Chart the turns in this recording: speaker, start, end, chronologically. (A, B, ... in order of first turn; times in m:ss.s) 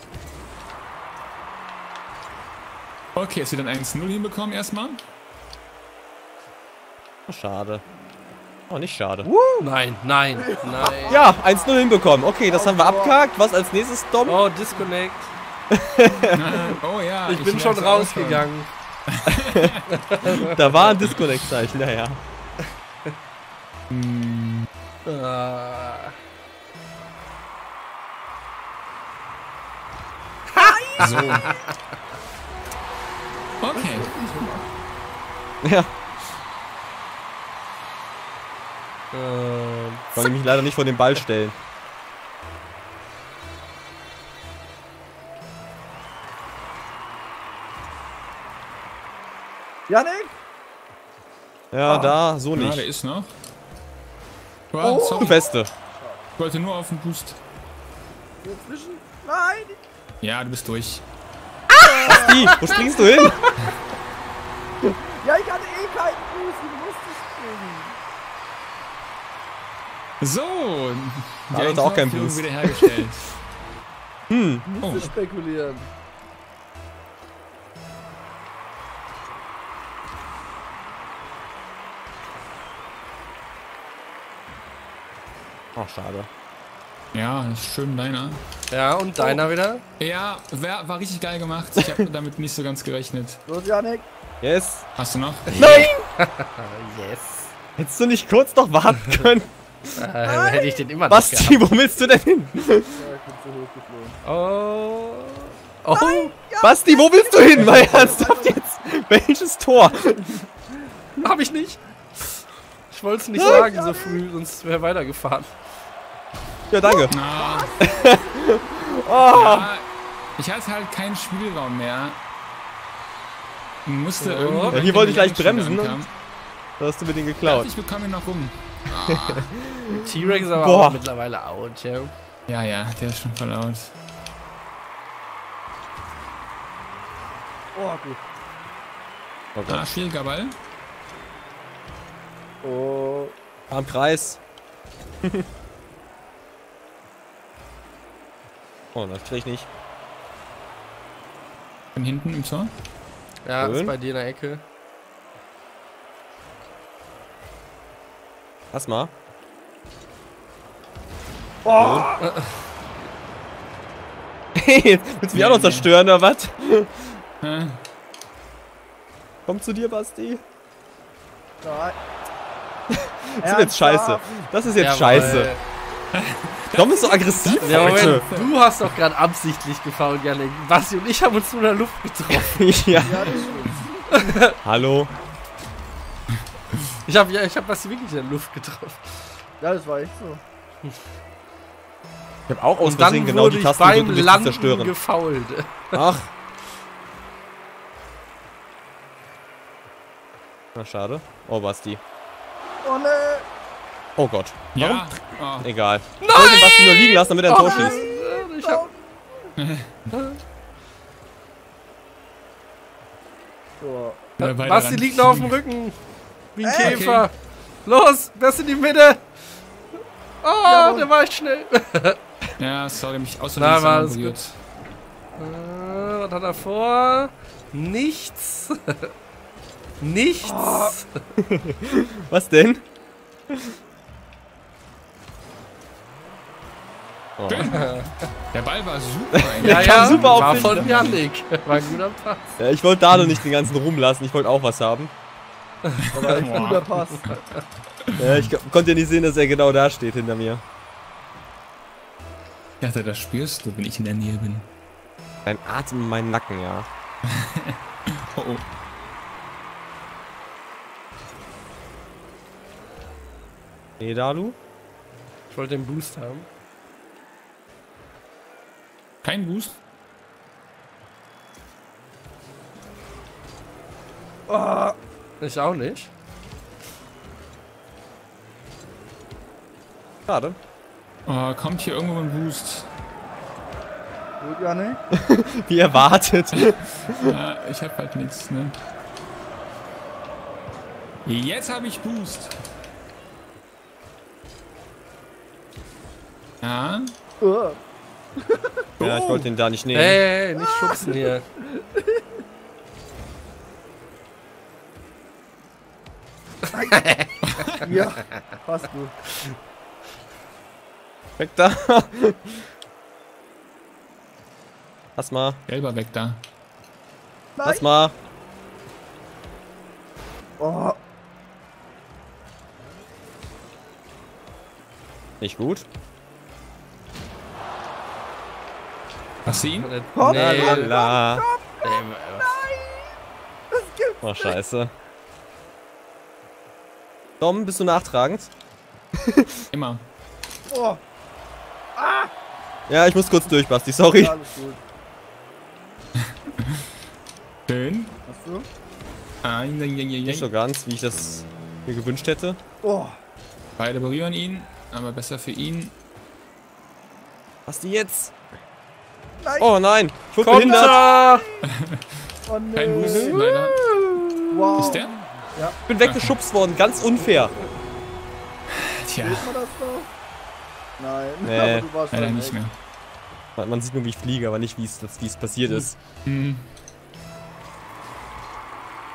0:03.1-0:05.0 A
0:07.3-0:07.8 B
0:08.7-0:09.3 B
0:09.2-0:09.7 C
0:09.6-0:11.3 D
0:10.4-0:11.7 C
0:11.1-0:14.4 B
0:12.5-0:13.2 C
0:14.2-0:15.3 D
0:15.7-0:16.7 B
0:16.3-0:18.5 A
0:17.2-0:18.7 D
0:19.1-0:19.8 A
0:19.5-0:22.2 B
0:19.9-0:20.9 D
0:23.9-0:24.7 A
0:25.0-0:26.1 D
0:30.5-0:31.5 D
0:30.6-0:31.2 C
0:31.0-0:31.5 A
0:33.6-0:34.1 A
0:33.7-0:34.6 C
0:35.6-0:35.9 B
0:39.1-0:40.2 D
0:40.2-0:41.5 B
0:49.9-0:50.3 C
0:51.7-0:52.8 B
0:51.8-0:52.1 C
0:52.5-0:53.3 A
0:54.7-0:55.4 A
0:54.8-0:56.2 C
0:55.2-0:55.7 B
0:56.4-0:57.4 A
0:58.4-0:59.8 C
1:00.2-1:01.0 A
1:01.8-1:02.8 C
1:01.9-1:02.7 D
1:02.1-1:03.4 B
1:05.2-1:08.0 C
1:10.2-1:13.4 A
1:11.5-1:12.9 B
1:14.3-1:14.6 B
1:14.6-1:15.9 C
1:14.8-1:15.1 A
1:25.8-1:26.3 B
1:27.1-1:28.4 A
1:28.7-1:29.8 D
1:30.0-1:33.4 A
1:31.8-1:32.1 B
1:33.5-1:34.1 C
1:34.4-1:34.9 B
1:35.0-1:35.5 A
1:35.5-1:37.5 D
1:35.6-1:35.9 B
1:37.8-1:39.5 B
1:40.0-1:41.6 D
1:40.2-1:40.8 C
1:41.1-1:42.9 B
1:42.9-1:44.2 C
1:44.2-1:46.3 D
1:45.9-1:48.6 C
1:46.6-1:50.3 B
1:51.2-1:55.5 D
1:53.3-1:53.6 B
1:53.4-1:54.2 C
1:56.7-1:57.2 B
1:56.8-1:58.6 C
1:57.1-1:57.7 A
1:57.8-1:59.7 B
1:59.3-1:59.8 A
2:00.4-2:02.2 A
2:03.8-2:06.1 A
2:04.2-2:04.8 D
2:04.7-2:06.0 B
2:06.8-2:07.7 B
2:07.4-2:09.5 A
2:09.1-2:11.0 B
2:10.0-2:12.1 D
2:12.5-2:13.9 A
2:17.7-2:18.2 C
2:19.5-2:19.8 B
2:19.7-2:20.5 A
2:22.6-2:23.3 C
2:23.7-2:24.4 B
2:28.9-2:29.7 B
2:31.9-2:32.7 A
2:33.4-2:34.6 D
2:33.6-2:33.9 B
2:38.7-2:39.1 B
2:41.6-2:42.2 C
2:41.8-2:42.1 B
2:44.6-2:47.1 B
2:45.3-2:45.9 A
2:47.4-2:47.8 A
2:49.4-2:50.4 B
2:51.6-2:52.0 C
2:52.9-2:55.5 B
2:53.4-2:54.3 C
2:54.7-2:55.6 D
2:56.1-2:58.6 A
2:56.8-2:58.2 B
2:57.6-3:02.7 D
3:02.3-3:03.5 B
3:03.0-3:04.0 C
3:04.2-3:04.5 D
3:04.6-3:05.1 B
3:07.0-3:09.3 D
3:09.6-3:10.4 C
3:12.5-3:14.9 B
3:12.8-3:16.0 D
3:15.9-3:16.3 B
3:20.7-3:22.0 B
3:22.8-3:23.4 C
3:24.2-3:28.0 B
3:24.7-3:25.7 A
3:26.2-3:28.9 D
3:27.5-3:29.3 C
3:29.6-3:29.9 A
3:30.1-3:30.4 D
3:33.8-3:34.3 C
3:34.4-3:35.6 A
3:34.4-3:36.0 D
3:36.5-3:37.3 D
3:36.6-3:37.0 C
3:36.8-3:37.3 A
3:37.8-3:39.2 D
3:40.4-3:42.2 D
3:40.6-3:41.1 C
3:42.6-3:44.6 A
3:43.6-3:44.4 D
3:45.4-3:49.0 D
3:50.0-3:51.2 D
3:50.4-3:51.0 C
3:51.5-3:52.8 B
3:57.4-3:57.7 B
3:57.5-3:58.0 A
3:57.7-3:58.1 D
3:58.5-4:01.2 A
3:59.3-4:01.1 B
3:59.6-4:02.6 D
4:02.6-4:05.1 B
4:03.1-4:03.4 A
4:06.1-4:07.3 C
4:06.1-4:06.4 D
4:06.2-4:06.9 A
4:08.2-4:08.5 A
4:08.2-4:10.6 B
4:12.8-4:14.7 A
4:15.4-4:16.9 B
4:17.4-4:17.7 A
4:18.2-4:18.6 A
4:24.0-4:24.6 B
4:25.5-4:26.5 D
4:29.2-4:29.8 A
4:34.5-4:35.0 C
4:35.4-4:36.1 D
4:40.3-4:40.6 B
4:41.2-4:42.9 A
4:44.4-4:45.0 C
4:45.1-4:47.3 B
4:46.6-4:48.7 A
4:51.2-4:52.5 A
4:56.6-4:57.1 A
4:57.4-4:57.8 C
4:58.4-4:59.5 C
4:59.0-5:00.2 B
4:59.9-5:01.4 D
5:00.6-5:02.2 C
5:06.7-5:07.0 C
5:06.9-5:07.2 D
5:07.8-5:09.2 C
5:11.4-5:12.6 B
5:15.2-5:15.6 B
5:15.7-5:16.4 A
5:17.6-5:17.9 C
5:17.6-5:18.1 B
5:20.6-5:21.0 C
5:25.4-5:25.8 B
5:29.4-5:30.9 D
5:29.4-5:29.9 A
5:30.1-5:33.1 C
5:30.3-5:31.4 B
5:31.8-5:32.7 D
5:33.7-5:34.6 C
5:34.2-5:34.9 B
5:37.4-5:38.5 B
5:39.7-5:40.0 A
5:40.7-5:41.0 C
5:42.0-5:42.3 C
5:42.9-5:44.4 B
5:44.2-5:44.8 C
5:47.7-5:48.2 A
5:48.3-5:48.6 C
5:49.4-5:50.5 A
5:50.2-5:52.6 B
5:52.8-5:53.2 C
5:53.8-5:55.9 A
5:57.7-5:58.3 B
5:59.4-5:59.7 C
5:59.6-6:01.0 B
6:00.4-6:01.5 D
6:00.5-6:01.6 C
6:01.7-6:02.0 A
6:02.5-6:03.4 C
6:02.7-6:03.8 A
6:03.0-6:04.3 D
6:04.5-6:05.2 C
6:04.7-6:05.1 A
6:05.9-6:07.5 B
6:06.0-6:06.3 A
6:09.0-6:09.5 A
6:09.2-6:10.1 C
6:11.0-6:12.6 C
6:11.4-6:11.9 B
6:12.1-6:12.7 A
6:13.6-6:16.0 B
6:16.2-6:16.6 A